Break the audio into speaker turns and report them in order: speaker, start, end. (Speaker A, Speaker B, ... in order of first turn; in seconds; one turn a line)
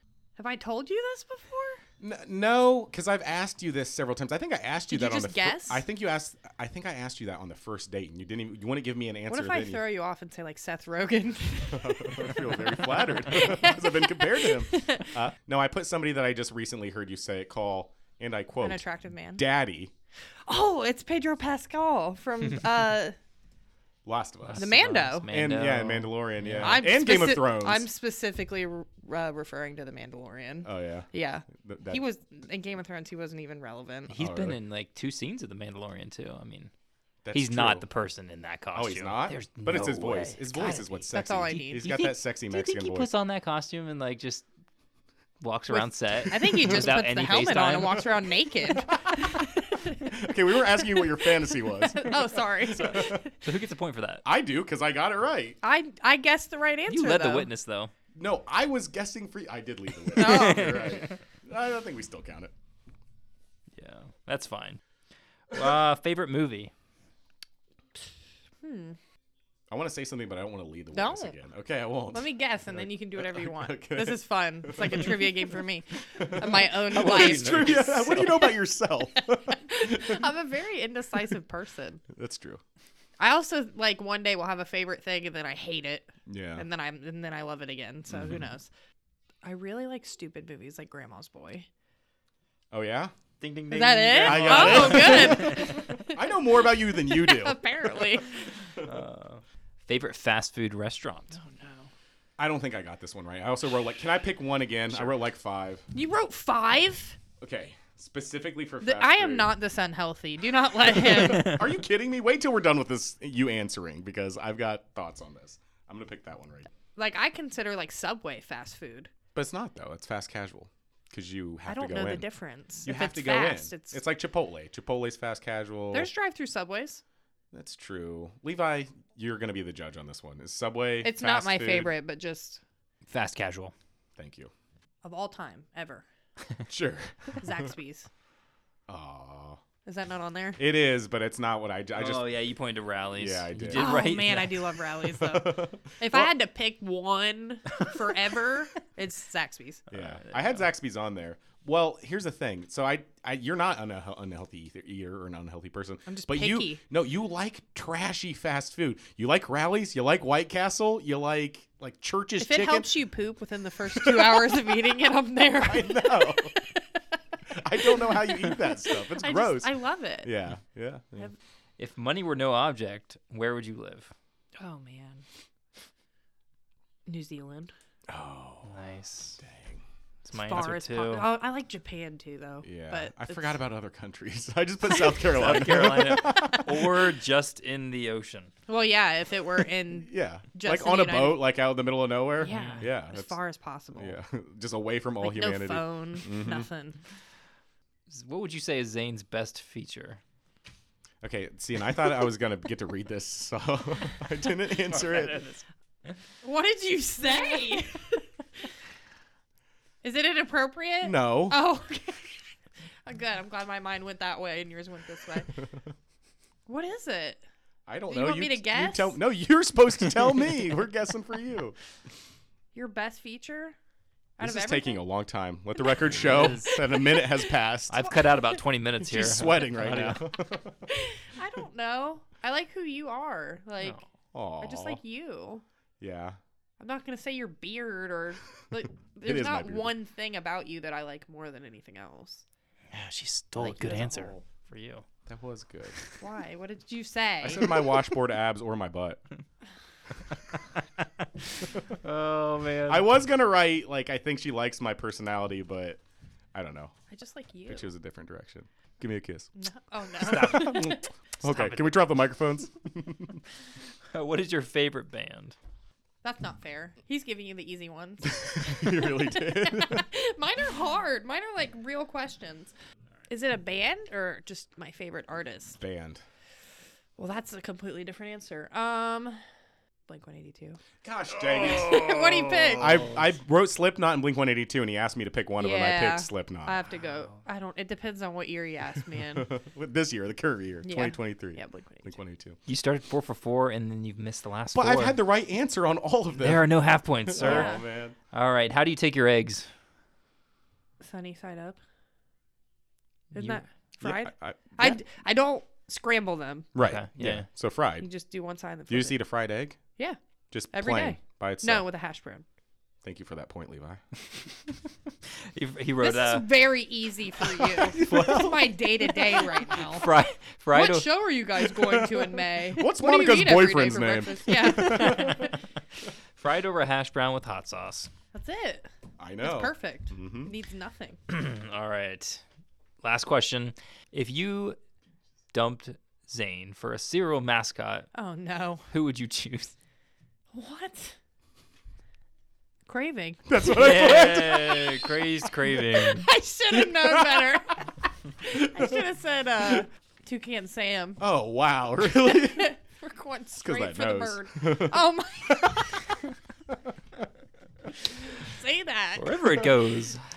Speaker A: 0.4-1.8
Speaker B: 2.0-9.9
Speaker A: 4.9-5.8
Speaker A: 9.3-15.1
Speaker B: 11.7-18.8
Speaker A: 18.6-19.4
Speaker B: 19.4-19.9
Speaker A: 20.5-23.2
Speaker B: 24.1-24.7
Speaker C: 24.5-26.9
Speaker A: 24.6-25.3
Speaker B: 25.3-27.9
Speaker A: 26.6-34.1
Speaker B: 30.6-32.0
Speaker C: 34.1-36.7
Speaker B: 34.1-34.6
Speaker B: 37.2-37.9
Speaker C: 37.3-40.9
Speaker B: 38.7-43.1
Speaker A: 41.1-41.9
Speaker C: 41.7-44.5
Speaker C: 45.4-48.1
Speaker A: 45.7-50.1
Speaker B: 50.0-53.2
Speaker A: 50.8-53.4
Speaker C: 53.0-54.2
Speaker B: 54.2-55.6
Speaker A: 55.6-57.5
Speaker C: 56.9-57.9
Speaker B: 58.1-62.5
Speaker A: 60.1-61.0
Speaker C: 60.1-61.1
Speaker C: 63.8-64.8
Speaker C: 65.5-66.7
Speaker A: 68.6-69.0
Speaker B: 69.7-75.3
Speaker A: 70.9-71.3
Speaker A: 72.1-78.4
Speaker B: 76.2-80.2
Speaker C: 76.8-78.5
Speaker A: 79.5-82.0
Speaker B: 82.1-82.6
Speaker A: 83.2-88.7
Speaker B: 86.3-86.7
Speaker B: 88.1-88.4
Speaker A: 89.4-91.7
Speaker B: 92.7-93.1
Speaker C: 93.4-95.8
Speaker A: 93.7-96.3
Speaker B: 94.2-97.9
Speaker A: 96.9-98.4
Speaker C: 98.8-101.4
Speaker A: 101.3-101.9
Speaker B: 102.4-105.8
Speaker A: 105.9-107.2
Speaker B: 107.4-109.5
Speaker A: 108.8-111.6
Speaker B: 110.9-116.7
Speaker A: 117.0-119.1
Speaker B: 119.3-122.3
Speaker A: 121.7-124.0
Speaker B: 122.8-126.1
Speaker A: 125.9-127.0
Speaker B: 127.5-131.9
Speaker A: 131.0-132.6
Speaker C: 133.1-133.7
Speaker B: 134.2-134.5
Speaker A: 135.0-136.1
Speaker B: 136.7-137.5
Speaker A: 137.4-138.1
Speaker B: 138.9-139.6
Speaker A: 139.8-140.6
Speaker B: 140.6-142.3
Speaker C: 141.9-144.8
Speaker B: 143.2-144.0
Speaker A: 143.7-149.9
Speaker B: 145.2-146.3
Speaker B: 149.9-162.9
Speaker A: 156.1-156.8
Speaker A: 162.4-166.8
Speaker B: 163.9-164.7
Speaker B: 165.6-166.6
Speaker B: 167.5-169.7
Speaker A: 167.8-170.3
Speaker B: 170.2-171.3
Speaker C: 171.8-174.1
Speaker A: 174.6-175.2
Speaker A: 177.1-177.7
Speaker B: 178.1-178.8
Speaker C: 178.7-179.4
Speaker B: 179.4-179.8
Speaker C: 180.2-181.3
Speaker A: 180.3-183.6
Speaker B: 182.6-187.0
Speaker C: 185.2-188.5
Speaker A: 186.4-186.6
Speaker A: 188.7-191.4
Speaker B: 190.0-193.4
Speaker A: 192.4-194.2
Speaker C: 192.5-192.8
Speaker B: 193.9-196.7
Speaker A: 195.2-197.0
Speaker C: 198.1-200.2
Speaker B: 201.2-205.4
Speaker C: 204.9-205.6
Speaker A: 206.4-208.2
Speaker A: 210.0-212.4
Speaker B: 211.0-211.6
Speaker A: 213.1-215.5
Speaker A: 216.7-217.4
Speaker B: 217.9-221.8
Speaker A: 218.1-219.2
Speaker A: 222.7-223.8
Speaker A: 224.4-225.0
Speaker B: 224.4-228.0
Speaker C: 226.2-226.8
Speaker A: 226.7-227.4
Speaker C: 227.9-230.3
Speaker B: 229.0-230.8
Speaker A: 230.9-234.0
Speaker B: 234.3-235.0
Speaker A: 234.6-235.6
Speaker B: 236.0-236.4
Speaker A: 236.8-242.4
Speaker B: 239.2-239.9
Speaker C: 242.9-245.1
Speaker B: 243.6-244.4
Speaker B: 245.3-246.0
Speaker A: 246.2-247.8
Speaker B: 247.4-249.2
Speaker C: 251.9-253.1
Speaker B: 252.9-256.0
Speaker B: 256.5-256.9
Speaker A: 257.1-257.9
Speaker B: 257.7-259.5
Speaker A: 259.6-261.0
Speaker B: 260.2-263.4
Speaker C: 260.3-261.8
Speaker C: 264.1-265.6
Speaker A: 266.2-272.7
Speaker B: 268.2-270.1
Speaker A: 273.3-275.8
Speaker B: 275.8-276.2
Speaker A: 277.2-279.4
Speaker A: 280.1-280.8
Speaker B: 281.0-282.2
Speaker A: 281.6-283.1
Speaker B: 282.8-286.8
Speaker A: 285.6-289.5
Speaker B: 289.3-292.6
Speaker A: 290.8-292.2
Speaker C: 292.7-295.2
Speaker B: 294.7-298.2
Speaker C: 296.4-297.8
Speaker A: 297.4-297.8
Speaker C: 298.3-299.7
Speaker A: 301.0-301.8
Speaker C: 303.3-303.6
Speaker A: 303.3-306.7
Speaker B: 304.0-305.0
Speaker B: 306.8-308.1
Speaker C: 306.8-307.5
Speaker A: 308.0-309.2
Speaker B: 308.9-309.8
Speaker B: 310.5-311.9
Speaker A: 310.7-312.5
Speaker B: 313.0-314.0
Speaker C: 315.3-316.5
Speaker A: 316.0-320.2
Speaker B: 317.9-318.9
Speaker C: 319.9-321.2
Speaker A: 320.7-325.6
Speaker B: 321.7-325.5
Speaker C: 326.4-328.1
Speaker A: 328.3-328.9
Speaker B: 329.2-330.5
Speaker A: 329.4-331.2
Speaker C: 331.3-332.4
Speaker C: 333.0-334.8
Speaker C: 335.5-338.1
Speaker A: 338.1-338.9
Speaker C: 338.9-339.7
Speaker A: 340.5-341.2
Speaker A: 342.9-343.5
Speaker B: 343.5-345.2
Speaker C: 343.6-346.3
Speaker A: 346.1-347.8
Speaker B: 346.7-347.6
Speaker A: 348.4-351.2
Speaker B: 348.6-348.9
Speaker B: 351.2-352.7
Speaker A: 352.0-356.1
Speaker B: 353.6-355.8
Speaker A: 358.3-359.4
Speaker C: 359.2-360.2